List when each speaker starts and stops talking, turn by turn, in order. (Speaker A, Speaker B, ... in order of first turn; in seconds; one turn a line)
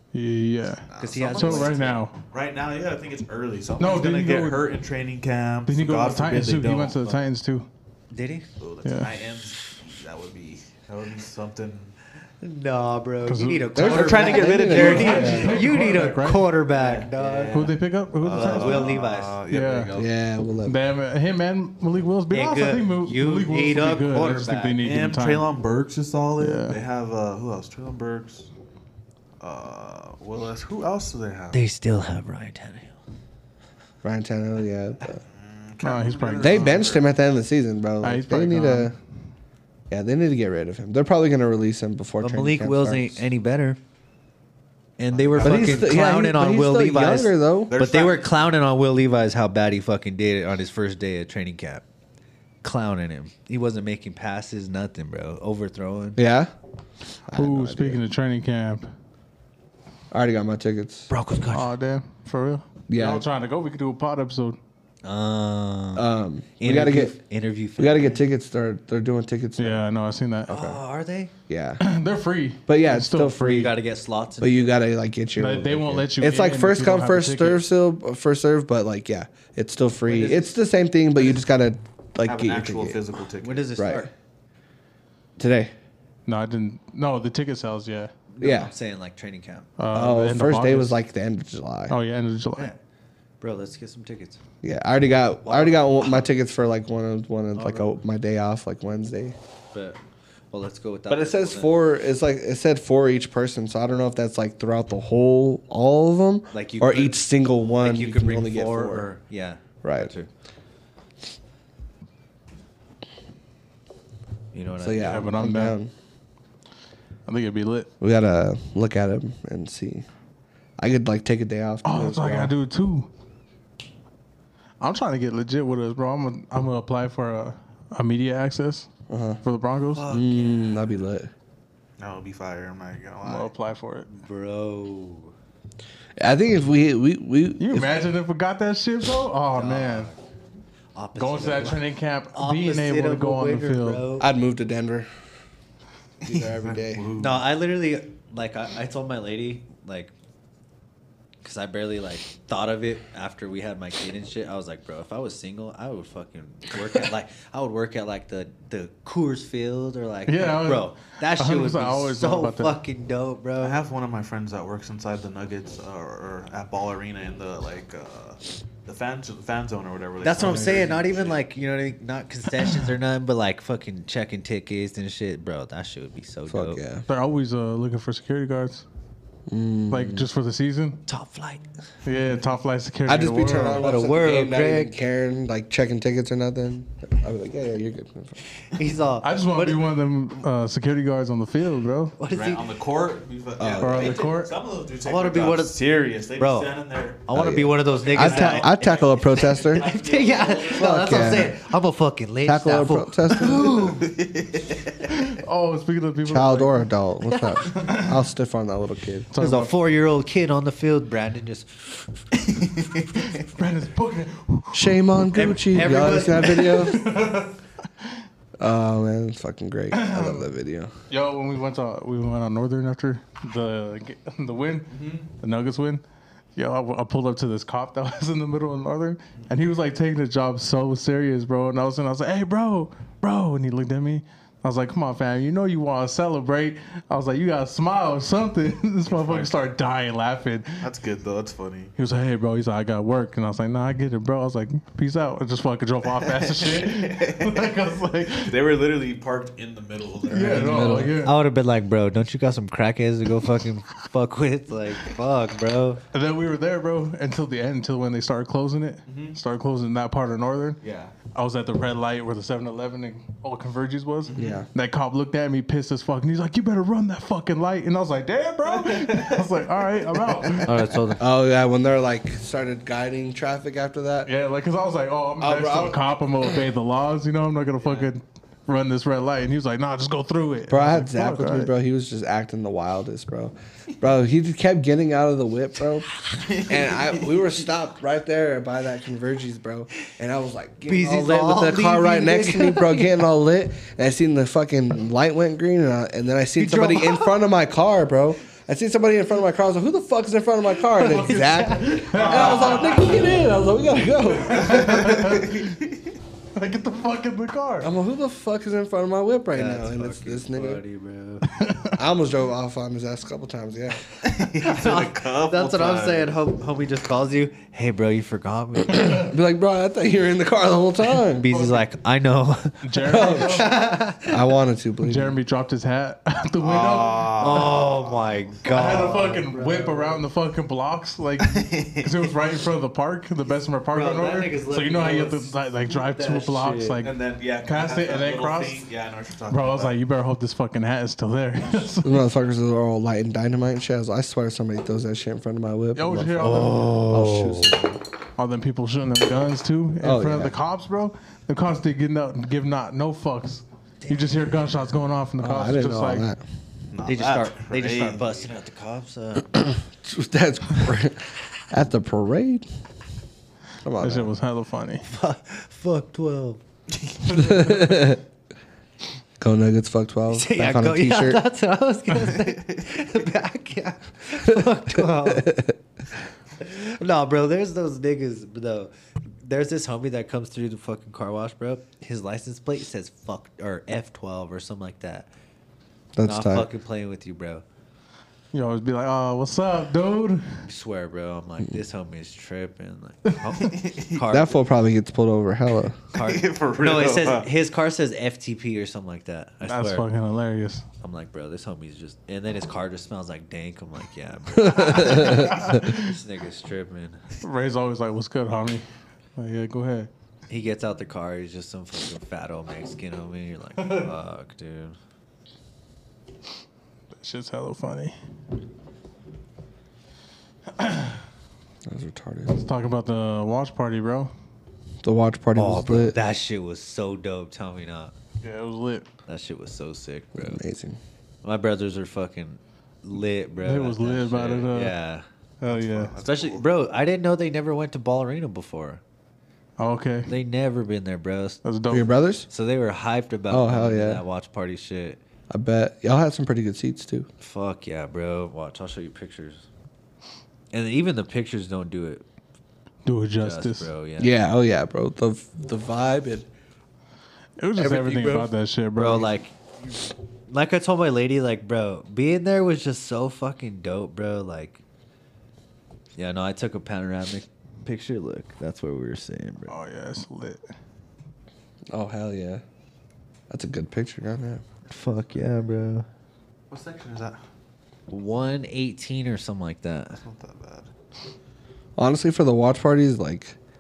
Speaker A: 0.1-2.1
Speaker B: 0.9-7.3
Speaker C: 1.0-2.0
Speaker A: 3.8-4.6
Speaker A: 5.7-7.7
Speaker C: 8.1-8.5
Speaker B: 8.6-11.9
Speaker A: 8.8-9.2
Speaker C: 12.4-17.7
Speaker A: 13.2-16.5
Speaker D: 13.8-15.5
Speaker B: 13.8-15.7
Speaker B: 16.7-19.9
Speaker A: 17.5-19.9
Speaker C: 18.2-20.1
Speaker D: 19.9-20.8
Speaker A: 20.6-25.5
Speaker C: 22.3-24.9
Speaker B: 24.8-28.5
Speaker A: 26.4-26.8
Speaker B: 29.4-31.6
Speaker C: 31.5-33.0
Speaker D: 34.0-35.2
Speaker B: 35.3-37.1
Speaker A: 35.8-36.8
Speaker D: 36.4-39.0
Speaker A: 38.0-39.0
Speaker D: 39.9-43.2
Speaker C: 42.2-43.8
Speaker C: 45.0-51.9
Speaker B: 45.1-45.9
Speaker D: 45.4-47.7
Speaker B: 47.7-48.3
Speaker C: 52.6-56.2
Speaker D: 56.2-56.5
Speaker D: 57.3-58.0
Speaker A: 57.3-58.9
Speaker D: 60.1-61.1
Speaker C: 61.1-61.7
Speaker A: 61.5-64.6
Speaker D: 62.9-63.2
Speaker C: 65.0-68.2
Speaker D: 66.0-67.2
Speaker D: 67.8-69.8
Speaker A: 69.6-70.5
Speaker D: 70.5-70.8
Speaker C: 70.5-71.3
Speaker D: 71.5-71.8
Speaker A: 71.8-73.7
Speaker D: 72.7-73.8
Speaker C: 73.4-74.8
Speaker D: 74.4-83.0
Speaker A: 75.3-77.6
Speaker C: 80.1-80.5
Speaker B: 82.2-83.7
Speaker C: 83.4-84.1
Speaker D: 83.8-84.1
Speaker D: 85.4-85.7
Speaker A: 86.3-88.1
Speaker C: 88.3-89.7
Speaker D: 88.4-88.7
Speaker A: 89.8-91.0
Speaker D: 89.9-92.0
Speaker A: 91.9-92.7
Speaker C: 93.4-94.4
Speaker D: 94.6-99.4
Speaker C: 95.4-96.2
Speaker C: 97.5-97.9
Speaker C: 99.7-100.0
Speaker C: 100.5-101.9
Speaker D: 101.1-109.1
Speaker C: 106.5-107.2
Speaker C: 107.8-110.3
Speaker D: 109.8-110.1
Speaker C: 114.5-115.3
Speaker D: 114.8-115.9
Speaker A: 115.0-115.8
Speaker A: 117.3-117.9
Speaker D: 118.0-120.0
Speaker D: 120.8-122.5
Speaker A: 121.8-123.1
Speaker A: 124.8-128.9
Speaker D: 129.1-129.4
Speaker A: 129.4-130.1
Speaker C: 129.9-130.8
Speaker D: 130.1-131.3
Speaker B: 132.0-133.5
Speaker A: 133.2-134.1
Speaker C: 134.1-135.3
Speaker D: 136.2-138.0
Speaker A: 137.6-140.1
Speaker C: 139.5-140.2
Speaker C: 140.9-144.3
Speaker A: 141.2-144.1
Speaker D: 144.2-145.1
Speaker D: 146.2-147.1
Speaker B: 146.3-147.4
Speaker C: 147.2-150.1
Speaker C: 151.4-163.8
Speaker A: 160.3-162.8
Speaker B: 163.6-171.4
Speaker C: 170.2-176.8
Speaker D: 170.4-170.9
Speaker D: 176.5-177.1
Speaker A: 177.1-178.8
Speaker D: 179.5-180.3
Speaker A: 179.9-181.0
Speaker C: 181.1-181.7
Speaker A: 182.1-183.9
Speaker D: 183.1-188.4
Speaker C: 183.7-184.9
Speaker C: 188.7-189.9
Speaker A: 189.2-192.2
Speaker C: 192.2-192.7
Speaker B: 192.3-197.2
Speaker D: 193.6-194.2
Speaker A: 193.8-194.6
Speaker C: 195.0-204.1
Speaker D: 197.3-199.9
Speaker B: 197.9-201.5
Speaker D: 200.8-201.6
Speaker D: 202.4-203.8
Speaker B: 203.7-205.2
Speaker A: 205.1-206.9
Speaker D: 206.2-209.3
Speaker C: 207.3-207.7
Speaker A: 207.7-208.2
Speaker A: 209.3-209.8
Speaker C: 209.4-212.0
Speaker B: 212.3-213.1
Speaker A: 213.2-215.1
Speaker D: 214.7-217.0
Speaker C: 215.3-217.0
Speaker A: 216.5-218.1
Speaker D: 218.6-220.9
Speaker A: 219.9-220.5
Speaker A: 221.1-226.0
Speaker B: 224.9-225.3
Speaker A: 226.6-240.9
Speaker B: 239.1-239.7
Speaker B: 240.8-241.9
Speaker A: 242.0-248.6
Speaker B: 246.2-247.7
Speaker B: 248.3-251.1
Speaker A: 250.3-251.4
Speaker D: 250.4-251.2
Speaker C: 251.2-256.0
Speaker A: 256.1-271.0
Speaker B: 259.1-259.4
Speaker B: 260.8-261.1
Speaker B: 264.3-264.6
Speaker D: 264.4-264.7
Speaker B: 268.7-269.5
Speaker C: 270.6-271.2
Speaker D: 271.2-274.3
Speaker A: 274.3-281.7
Speaker D: 275.4-276.0
Speaker B: 277.8-278.1
Speaker D: 280.7-286.1
Speaker B: 286.3-287.5
Speaker D: 286.7-305.4
Speaker C: 290.9-293.2
Speaker C: 296.6-297.4
Speaker A: 300.9-302.7
Speaker C: 301.4-303.4
Speaker B: 302.1-303.3
Speaker A: 304.5-305.8
Speaker B: 304.7-305.9
Speaker A: 306.6-307.9
Speaker D: 307.8-310.8
Speaker C: 309.6-311.5
Speaker A: 311.5-312.0
Speaker D: 312.0-314.0
Speaker B: 314.2-316.4
Speaker C: 314.5-319.1
Speaker D: 318.9-321.5
Speaker C: 321.4-324.4
Speaker A: 321.5-321.9
Speaker A: 322.8-323.9
Speaker D: 323.1-325.4
Speaker A: 325.0-327.7
Speaker B: 326.6-329.1
Speaker C: 327.4-330.2
Speaker A: 328.7-337.1
Speaker B: 331.4-332.3
Speaker C: 333.9-337.0
Speaker B: 337.0-339.9
Speaker A: 337.6-338.9
Speaker A: 339.5-342.2
Speaker D: 342.0-348.0
Speaker A: 345.9-346.9
Speaker C: 346.4-347.8
Speaker A: 348.4-356.3
Speaker D: 350.0-350.6
Speaker C: 354.0-354.4
Speaker D: 355.4-356.4
Speaker B: 356.9-358.5
Speaker C: 357.1-359.5
Speaker D: 359.5-362.7
Speaker D: 363.8-364.3
Speaker A: 364.0-365.1
Speaker C: 365.1-366.6
Speaker B: 366.9-367.4
Speaker D: 367.3-368.2
Speaker D: 369.4-371.4
Speaker C: 370.3-375.6
Speaker B: 372.4-372.9
Speaker D: 375.2-375.7
Speaker C: 376.6-378.9
Speaker C: 379.4-385.3
Speaker D: 386.1-386.7
Speaker C: 386.2-387.6
Speaker A: 388.5-390.6
Speaker C: 390.6-394.6
Speaker B: 393.6-394.2
Speaker D: 394.3-396.0
Speaker B: 396.1-397.5
Speaker C: 396.1-400.1
Speaker A: 399.6-400.8
Speaker C: 401.0-407.2
Speaker D: 404.6-405.7
Speaker A: 405.0-406.2
Speaker A: 407.4-408.9
Speaker A: 409.4-410.1
Speaker C: 410.5-415.0
Speaker A: 413.8-414.1
Speaker A: 417.1-418.1
Speaker A: 420.7-421.2
Speaker D: 421.9-422.6
Speaker A: 422.5-424.3
Speaker D: 425.0-426.2
Speaker C: 425.6-428.1
Speaker A: 428.4-429.1
Speaker C: 429.3-430.6
Speaker D: 430.4-431.0
Speaker C: 431.4-435.2
Speaker A: 433.6-435.0
Speaker A: 435.6-436.2
Speaker B: 435.7-436.7
Speaker C: 436.2-439.0
Speaker A: 439.8-440.3
Speaker C: 440.3-441.6
Speaker A: 441.6-442.1
Speaker D: 441.9-442.5
Speaker C: 442.5-445.2
Speaker D: 443.5-444.2
Speaker D: 445.5-447.3
Speaker C: 447.4-449.7
Speaker C: 450.7-452.2
Speaker A: 453.1-453.9
Speaker C: 453.4-454.3
Speaker D: 454.2-456.5
Speaker A: 457.6-459.3
Speaker D: 457.8-458.5
Speaker C: 458.9-459.6
Speaker C: 460.5-464.8
Speaker C: 466.2-469.8
Speaker A: 469.7-470.6
Speaker D: 471.9-472.6
Speaker D: 473.5-474.6
Speaker C: 474.9-476.1
Speaker B: 476.7-477.4
Speaker C: 478.1-480.2
Speaker B: 480.2-480.9
Speaker D: 482.0-483.6